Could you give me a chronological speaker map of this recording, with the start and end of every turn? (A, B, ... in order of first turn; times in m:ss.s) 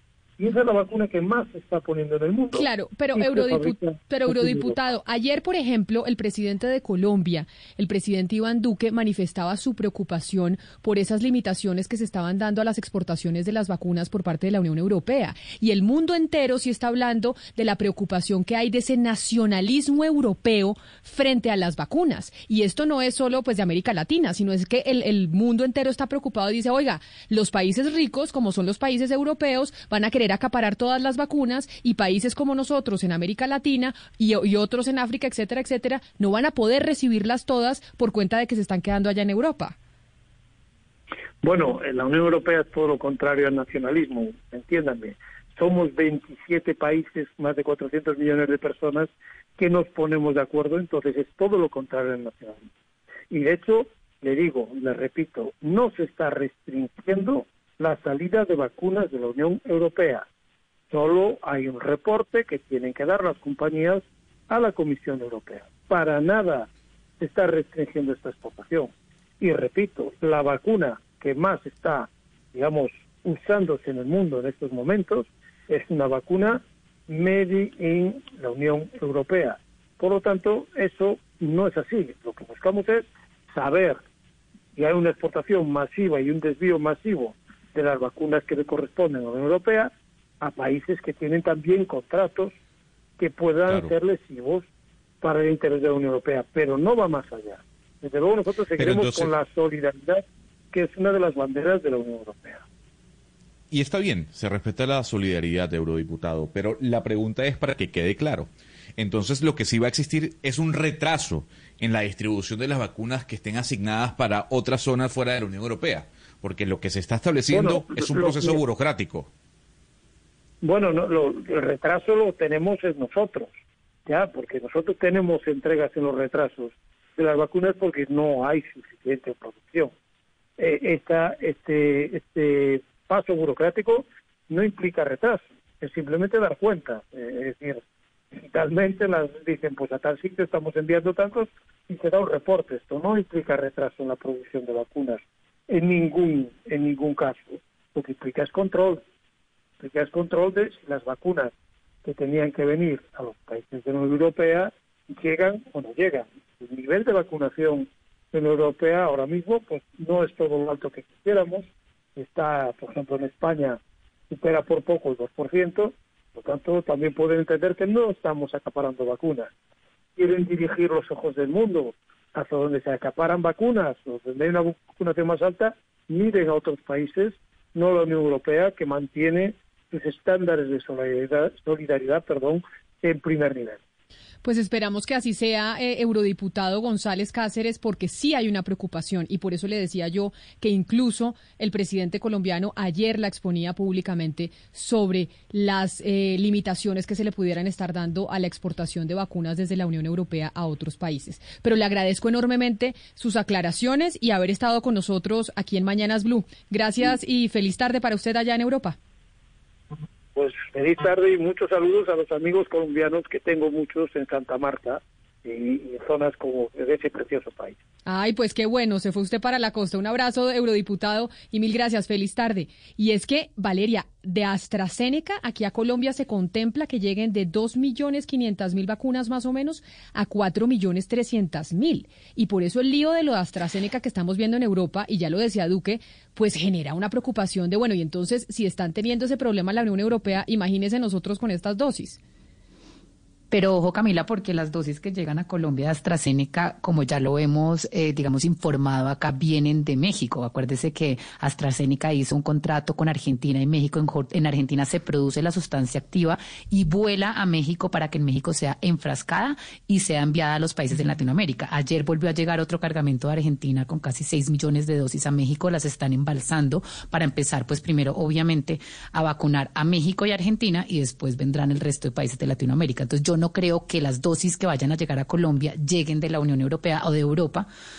0:00.4-0:04.9 A
0:02.5-0:39.8 B
0:41.4-0:52.7 A
0:53.3-1:00.3 A
1:00.9-1:06.7 A
1:07.2-1:24.0 A
1:24.8-1:32.5 A
1:33.2-1:34.7 A
1:33.7-1:33.9 C
1:35.2-1:42.6 A
1:38.8-1:39.3 C
1:43.7-1:59.3 C
1:57.5-1:58.6 A
2:00.6-2:03.5 A
2:04.1-2:09.9 A
2:10.6-2:29.0 A
2:29.8-2:31.5 A
2:32.0-2:43.8 A
2:44.3-2:49.5 A
2:50.2-3:03.8 A
3:04.4-3:29.0 B
3:30.4-3:37.8 A
3:38.0-4:02.2 B
4:03.5-4:37.7 D